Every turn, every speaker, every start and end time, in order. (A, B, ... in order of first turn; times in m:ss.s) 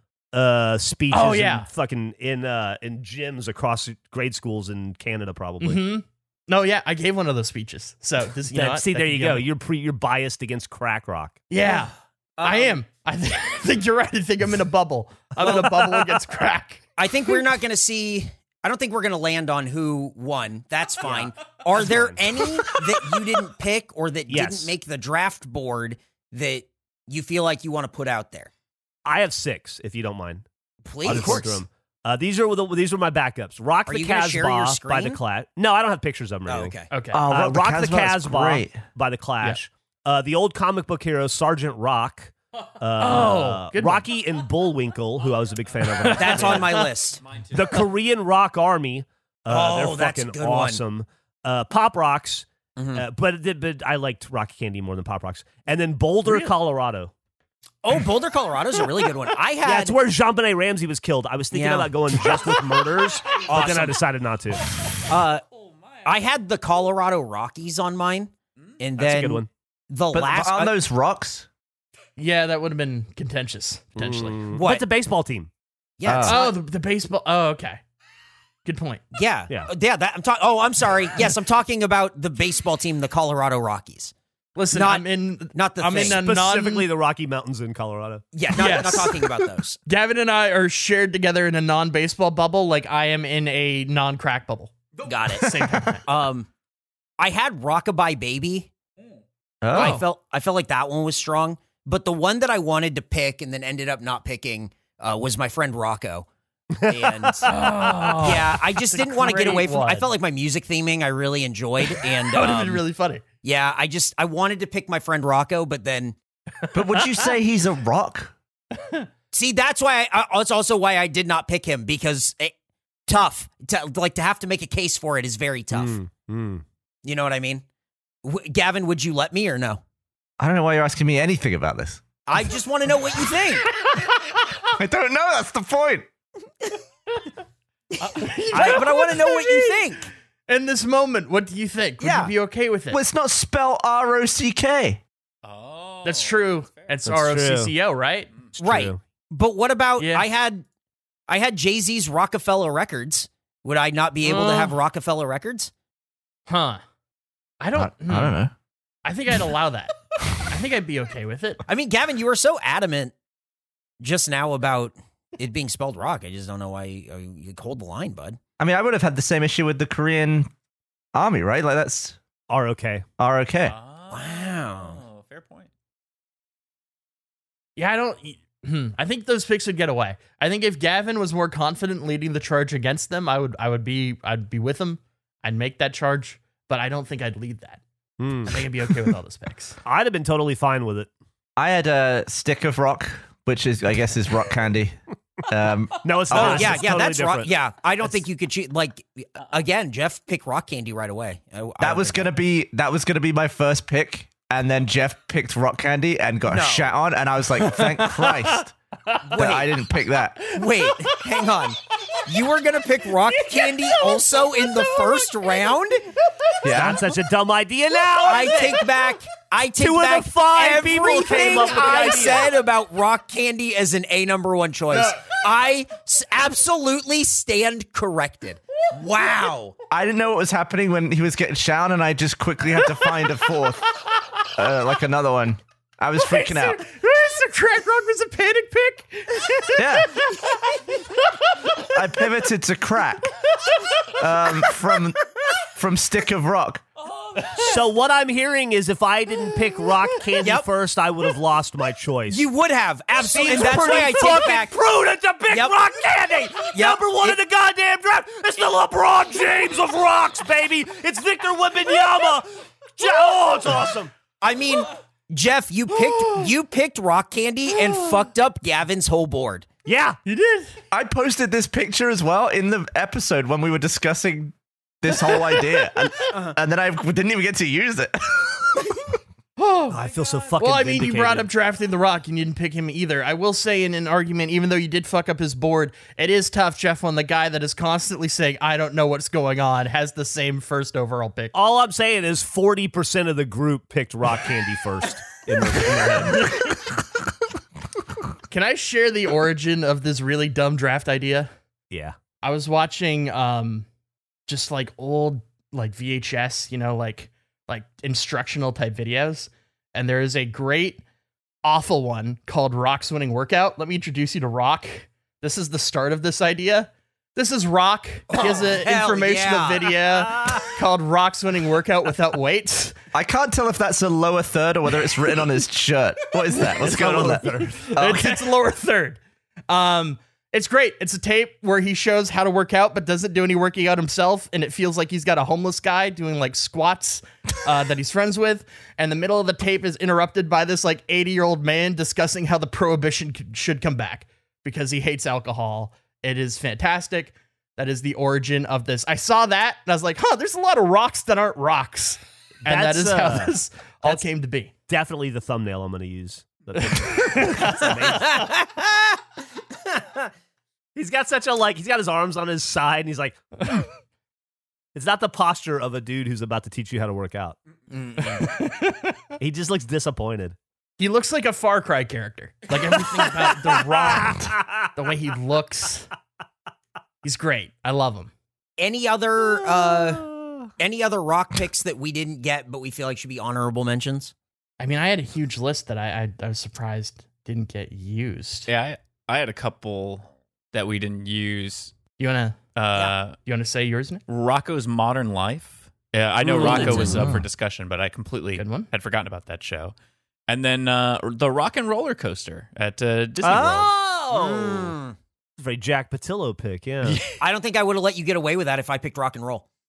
0:00.3-0:05.9 A
0:01.1-0:01.7 B
0:05.6-0:09.4 B
0:08.5-0:11.5 A
0:11.5-0:16.8 B
0:12.4-0:12.8 C
0:15.4-0:16.2 A
0:17.0-0:28.5 C
0:21.1-0:22.2 A
0:24.3-0:24.7 A
0:29.0-0:30.4 A
0:30.8-0:31.6 C
0:31.0-0:36.7 A
0:31.1-0:31.4 B
0:33.8-0:35.2 C
0:36.5-0:36.9 C
0:36.9-0:37.2 B
0:37.1-0:38.8 D
0:37.3-0:46.8 A
0:43.0-0:44.0 B
0:45.9-0:46.9 B
0:46.1-0:47.2 C
0:47.3-0:47.6 E
0:47.5-0:57.1 A
0:49.5-0:50.8 C
0:52.8-0:53.0 C
0:57.8-1:00.0 C
0:59.6-1:04.6 A
1:01.5-1:02.4 C
1:03.3-1:04.0 C
1:05.0-1:05.4 C
1:06.0-1:10.8 C
1:09.0-1:09.5 A
1:10.1-1:11.5 D
1:12.2-1:14.4 B
1:14.0-1:15.5 A
1:14.5-1:14.8 C
1:16.0-1:16.5 C
1:16.0-1:16.4 D
1:16.2-1:17.8 B
1:18.6-1:19.0 B
1:19.1-1:24.1 C
1:24.6-1:26.9 B
1:24.7-1:26.2 C
1:25.9-1:28.3 A
1:28.3-1:29.8 C
1:28.5-1:29.3 B
1:29.8-1:34.7 B
1:35.0-1:35.5 C
1:35.3-1:36.0 B
1:35.4-1:35.9 D
1:36.0-1:36.5 C
1:37.2-1:38.7 C
1:39.6-1:40.0 D
1:39.7-1:46.3 C
1:39.7-1:40.0 B
1:46.8-1:48.1 A
1:46.8-1:47.5 C
1:47.4-1:50.1 B
1:48.2-1:52.8 C
1:52.3-1:53.2 B
1:53.4-1:56.2 C
1:56.7-1:58.3 D
1:58.7-1:59.1 B
1:59.3-2:02.5 C
2:03.1-2:06.0 C
2:05.7-2:06.6 A
2:07.0-2:07.6 C
2:08.2-2:09.8 C
2:10.4-2:12.0 D
2:12.2-2:13.7 C
2:14.7-2:16.1 D
2:18.0-2:19.7 B
2:18.5-2:20.1 C
2:18.5-2:18.9 A
2:20.5-2:23.0 B
2:22.0-2:22.3 D
2:22.9-2:25.0 D
2:25.4-2:26.9 E
2:26.0-2:28.3 B
2:27.0-2:27.7 A
2:28.6-2:29.0 A
2:28.6-2:30.6 C
2:30.0-2:30.3 B
2:31.3-2:35.7 C
2:34.2-2:34.7 B
2:36.5-2:36.8 B
2:37.6-2:38.3 B
2:37.7-2:38.5 D
2:39.0-2:41.6 B
2:41.7-2:43.1 C
2:44.0-2:48.4 C
2:48.6-2:50.5 D
2:51.1-2:52.2 D
2:52.5-2:53.0 A
2:53.2-2:53.8 D
2:53.6-2:55.7 E
2:54.1-2:55.0 C
2:57.8-3:07.8 B
3:08.2-3:08.7 A
3:08.5-3:09.8 B
3:09.8-3:11.1 A
3:11.6-3:16.8 D
3:16.0-3:17.5 A
3:16.3-3:22.3 C
3:21.8-3:28.7 D
3:26.5-3:26.9 C
3:27.7-3:28.3 B
3:29.2-3:29.7 C
3:29.3-3:30.5 D
3:30.5-3:36.0 C
3:36.6-3:37.0 D
3:36.6-3:38.8 A
3:38.2-3:49.7 C
3:39.8-3:42.5 A
3:49.9-3:53.8 D
3:54.5-3:56.8 D
3:56.2-4:01.0 B
3:59.7-4:00.1 D
4:01.8-4:03.3 D
4:04.2-4:06.8 D
4:07.5-4:12.4 A
4:10.4-4:10.6 C
4:12.3-4:14.7 C
4:13.2-4:24.1 A
4:15.5-4:15.7 C
4:16.7-4:17.4 C
4:24.4-4:29.7 C
4:29.8-4:30.2 A
4:30.2-4:30.7 B
4:30.9-4:39.1 D
4:39.6-4:40.0 B
4:39.9-4:41.5 A
4:40.2-4:40.5 E
4:40.6-4:51.5 B
4:51.5-4:56.5 A
4:58.5-5:01.5 B
5:02.4-5:03.8 B
5:04.5-5:11.0 B
5:11.6-5:23.0 B
5:18.3-5:20.0 C
5:23.1-5:28.5 D
5:26.7-5:27.8 A
5:27.0-5:54.7 B
5:52.6-5:54.2 A
5:54.9-5:58.5 A
5:56.8-5:58.4 B
6:01.0-6:03.4 A
6:04.9-6:07.6 A
6:08.0-6:08.3 E
6:08.2-6:09.2 B
6:09.4-6:10.6 A
6:11.0-6:16.1 B
6:13.1-6:14.9 A
6:17.2-6:18.3 B
6:18.8-6:24.3 C
6:24.8-6:28.7 B
6:28.7-6:31.9 E
6:32.2-6:32.6 B
6:32.7-6:33.4 E
6:33.4-6:34.2 B
6:34.3-6:39.9 E
6:36.4-6:37.1 B
6:36.6-6:37.2 C
6:37.0-6:37.4 D
6:38.6-6:38.9 B
6:40.5-6:43.9 E
6:43.4-6:45.0 A
6:44.3-6:45.2 C
6:45.6-6:47.2 A
6:47.1-6:47.4 E
6:47.3-6:49.6 C